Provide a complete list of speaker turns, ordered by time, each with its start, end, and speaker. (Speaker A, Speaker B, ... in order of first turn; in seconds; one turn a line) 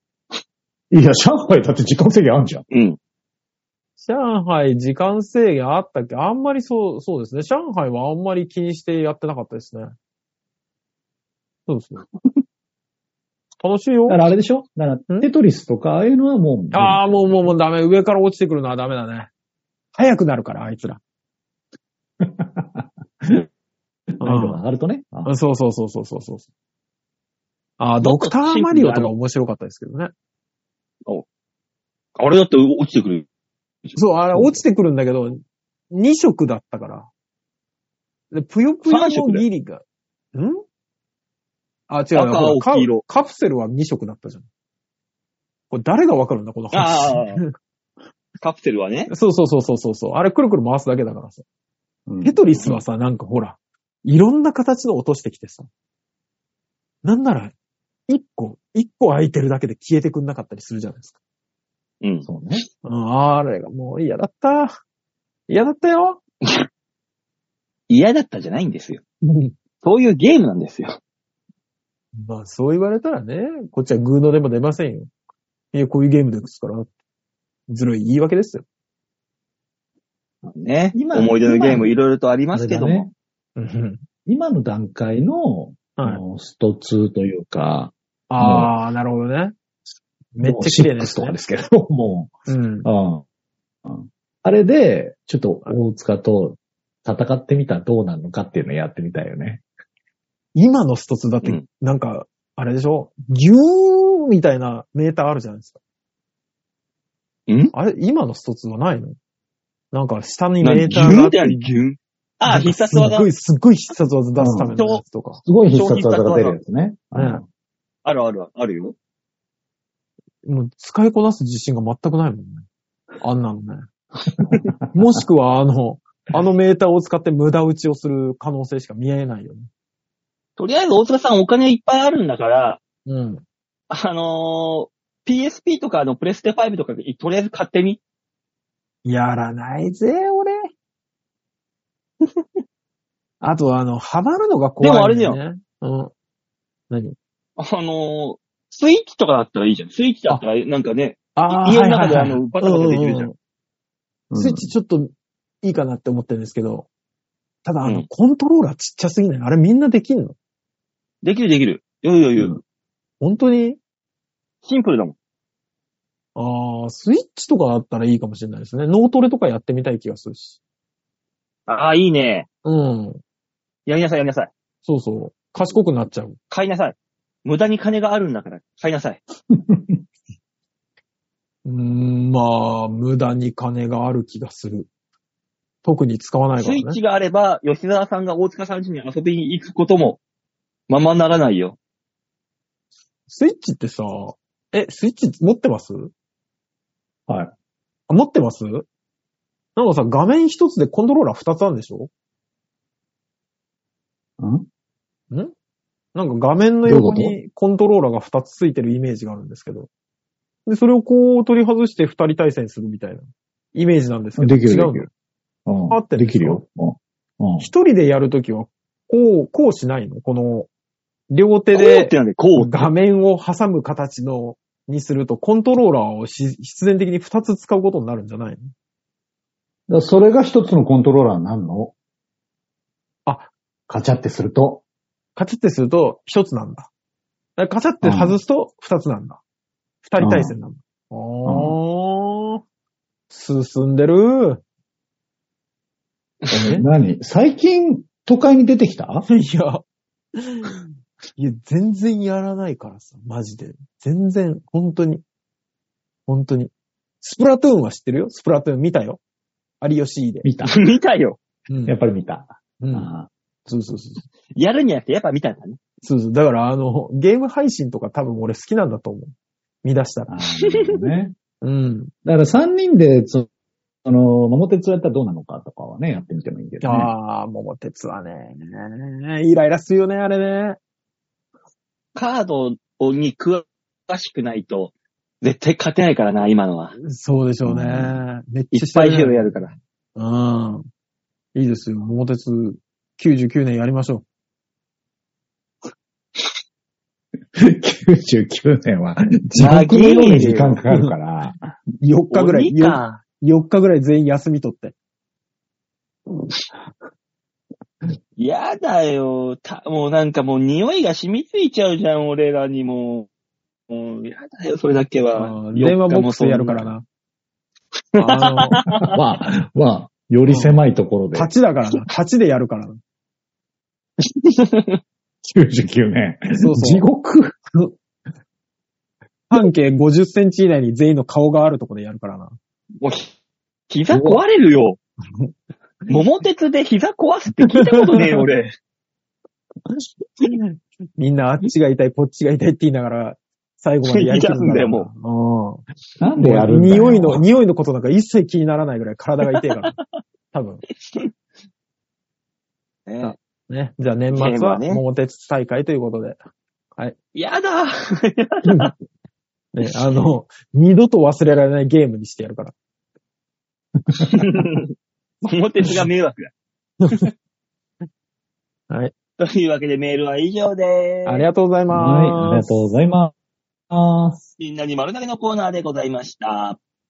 Speaker A: 0.9-2.6
Speaker B: 2.7-3.0
Speaker C: 4.0-9.9
Speaker C: 11.7-12.0
Speaker C: 13.6-14.2
Speaker A: 14.1-17.3
Speaker C: 16.7-19.3
Speaker C: 19.9-21.0
Speaker A: 22.2-23.4
Speaker A: 24.2-25.3
Speaker C: 24.2-24.6
Speaker C: 25.2-26.5
Speaker C: 27.8-30.1
Speaker B: 28.0-29.1
Speaker B: 32.2-33.2
Speaker C: 33.9-37.1
Speaker C: 38.3-39.8
Speaker B: 38.8-39.4
Speaker C: 40.3-40.6
Speaker C: 41.9-44.5
Speaker B: 42.1-43.0
Speaker C: 45.7-47.5
Speaker B: 46.7-47.4
Speaker B: 48.4-49.1
Speaker C: 49.1-51.4
Speaker A: 52.1-52.4
Speaker C: 52.2-55.7
Speaker C: 57.0-57.5
Speaker C: 58.1-61.1
Speaker B: 62.0-62.3
Speaker A: 62.2-62.6
Speaker C: 62.8-64.8
Speaker C: 65.5-66.2
Speaker B: 67.9-69.0
Speaker C: 69.2-69.5
Speaker B: 69.8-71.0
Speaker C: 72.2-75.1
Speaker C: 75.7-76.9
Speaker C: 77.7-78.6
Speaker B: 80.4-83.1
Speaker A: 80.9-82.0
Speaker A: 82.5-83.1
Speaker C: 83.6-84.0
Speaker A: 84.2-88.7
Speaker C: 86.0-86.2
Speaker C: 88.3-89.5
Speaker C: 90.4-91.4
Speaker A: 90.4-92.3
Speaker C: 92.5-92.9
Speaker A: 92.8-93.2
Speaker A: 93.8-99.6
Speaker C: 100.5-105.8
Speaker B: 107.5-107.7
Speaker C: 107.7-109.2
Speaker C: 109.9-111.8
Speaker B: 110.6-113.3
Speaker A: 110.9-111.2
Speaker C: 112.5-115.4
Speaker A: 114.4-114.8
Speaker B: 114.8-115.0
Speaker A: 115.4-117.5
Speaker B: 115.7-116.6
Speaker C: 117.1-117.4
Speaker B: 118.0-118.9
Speaker C: 120.4-122.6
Speaker C: 123.2-123.9
Speaker A: 124.4-124.8
Speaker C: 124.9-129.7
Speaker B: 130.6-132.8
Speaker C: 133.1-133.4
Speaker B: 133.9-138.0
Speaker C: 139.0-140.7
Speaker C: 143.4-146.1
Speaker B: 144.8-145.4
Speaker C: 146.9-147.2
Speaker B: 147.6-153.3
Speaker C: 151.3-153.3
Speaker A: 154.3-154.7
Speaker C: 154.3-155.1
Speaker C: 155.6-156.9
Speaker C: 157.6-160.3
Speaker B: 161.2-162.6
Speaker C: 163.2-163.8
Speaker B: 164.6-165.1
Speaker C: 166.3-170.6
Speaker B: 171.7-172.5
Speaker C: 172.6-173.2
Speaker B: 173.8-174.5
Speaker C: 174.8-176.4
Speaker B: 176.5-179.2
Speaker A: 179.5-180.0
Speaker C: 181.6-184.9
Speaker C: 185.8-187.0
Speaker B: 186.6-190.2
Speaker B: 190.9-191.8
Speaker C: 193.3-196.1
Speaker A: 197.3-197.5
Speaker C: 198.1-198.9
Speaker C: 199.8-202.1
Speaker A: 204.4-204.7
Speaker C: 206.1-209.9
Speaker A: 206.8-207.4
Speaker C: 210.7-215.1
Speaker A: 214.4-215.1
Speaker A: 215.7-217.7
Speaker C: 215.9-216.6
Speaker C: 217.6-220.7
Speaker C: 221.3-228.7
Speaker B: 221.7-222.9
Speaker A: 229.9-231.9
Speaker C: 233.2-233.5
Speaker A: 233.9-234.8
Speaker C: 235.3-236.9
Speaker C: 237.6-239.4
Speaker A: 238.0-238.4
Speaker C: 240.0-242.6
Speaker A: 240.2-240.6
Speaker A: 241.4-241.8
Speaker C: 243.3-244.6
Speaker C: 246.5-246.9
Speaker A: 246.5-249.2
Speaker C: 249.3-249.8
Speaker C: 250.3-255.2
Speaker C: 256.3-259.2
Speaker C: 259.8-260.5
Speaker A: 260.4-260.8
Speaker B: 260.6-261.4
Speaker C: 261.7-261.9
Speaker A: 261.9-263.3
Speaker C: 262.8-263.1
Speaker C: 263.7-264.2
Speaker B: 264.5-265.8
Speaker C: 266.0-270.3
Speaker A: 270.3-271.4
Speaker C: 271.6-272.1
Speaker A: 272.2-273.5
Speaker A: 274.0-277.1
Speaker C: 276.8-280.8
Speaker B: 282.1-286.9
Speaker C: 287.0-289.5
Speaker A: 287.6-288.2
Speaker B: 288.7-289.7
Speaker C: 290.1-290.9
Speaker C: 291.5-294.2
Speaker A: 297.5-301.6
Speaker C: 299.5-301.1
Speaker B: 299.6-300.6
Speaker C: 302.0-304.9
Speaker B: 302.3-303.0
Speaker B: 308.4-313.3
Speaker B: 313.9-316.9
Speaker C: 315.3-317.0
Speaker B: 318.1-319.1
Speaker C: 318.2-318.8
Speaker A: 319.0-321.5
Speaker C: 320.4-320.8
Speaker C: 321.3-323.0
Speaker B: 324.2-325.0
Speaker A: 325.4-327.6
Speaker C: 326.6-327.1
Speaker C: 329.5-332.6
Speaker B: 333.0-333.3
Speaker B: 333.9-335.0
Speaker A: 334.1-334.4
Speaker B: 336.1-338.7
Speaker C: 337.7-338.4
Speaker C: 340.4-345.8
Speaker B: 344.0-345.1
Speaker A: 346.2-347.4
Speaker C: 346.4-350.0
Speaker B: 349.6-349.9
Speaker C: 350.5-350.8
Speaker B: 353.1-353.3
Speaker C: 353.2-356.4
Speaker B: 354.3-355.0
Speaker B: 357.3-358.9
Speaker C: 358.6-358.9
Speaker C: 359.7-362.7
Speaker B: 359.9-360.2
Speaker A: 364.0-364.6
Speaker B: 364.3-364.9
Speaker B: 365.4-366.5
Speaker B: 369.4-371.4
Speaker C: 371.2-372.9
Speaker A: 371.9-373.3
Speaker A: 373.9-374.4
Speaker B: 374.6-376.8